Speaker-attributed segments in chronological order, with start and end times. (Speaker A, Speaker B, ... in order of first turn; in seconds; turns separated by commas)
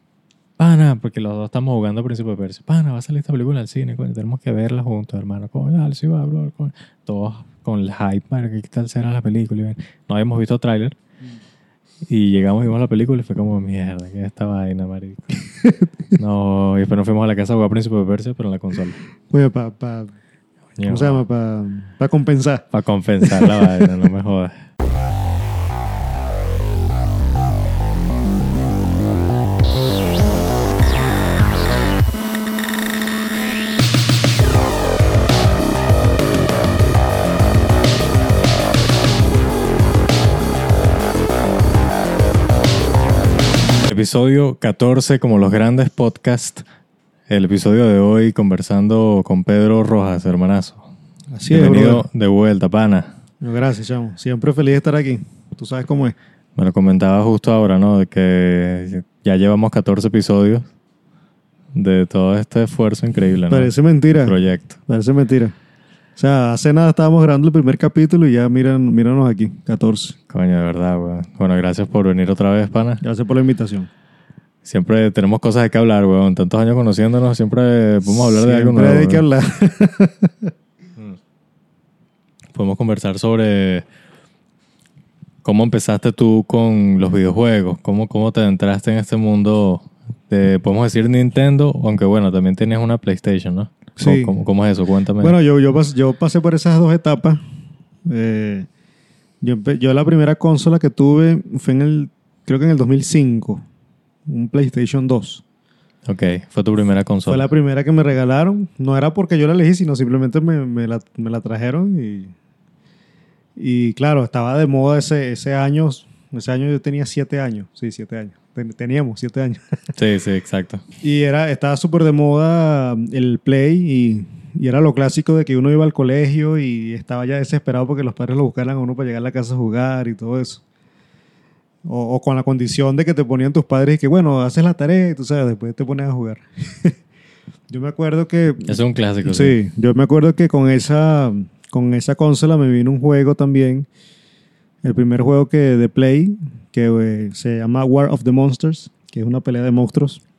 Speaker A: 0.6-11.0, Speaker A: 12.1-15.4, Speaker B: 15.6-16.2, Speaker A: 16.2-19.0, Speaker B: 19.3-20.1, Speaker A: 20.8-21.2, Speaker B: 20.9-22.6, Speaker A: 22.7-24.6, Speaker B: 23.2-24.1, Speaker A: 43.8-46.6, Speaker A: 47.3-50.9, Speaker B: 51.3-52.0, Speaker A: 51.5-53.1, Speaker B: 53.4-56.2, Speaker A: 56.6-60.7, Speaker A: 61.7-64.8, Speaker B: 63.5-64.3, Speaker B: 64.9-65.5, Speaker B: 66.2-70.2, Speaker A: 70.3-73.0, Speaker B: 73.0-73.9, Speaker A: 74.6-79.2, Speaker B: 78.1-80.5, Speaker A: 82.5-83.8, Speaker A: 85.4-95.3, Speaker B: 94.0-94.3, Speaker B: 95.2-97.4, Speaker B: 98.1-98.7, Speaker B: 99.4-103.6, Speaker B: 104.3-105.4, Speaker A: 106.1-107.5, Speaker B: 107.3-112.3, Speaker B: 113.6-119.9, Speaker A: 119.9-120.8, Speaker B: 121.0-130.6, Speaker B: 131.9-137.0, Speaker B: 137.7-143.9, Speaker A: 138.7-139.6, Speaker B: 144.8-150.2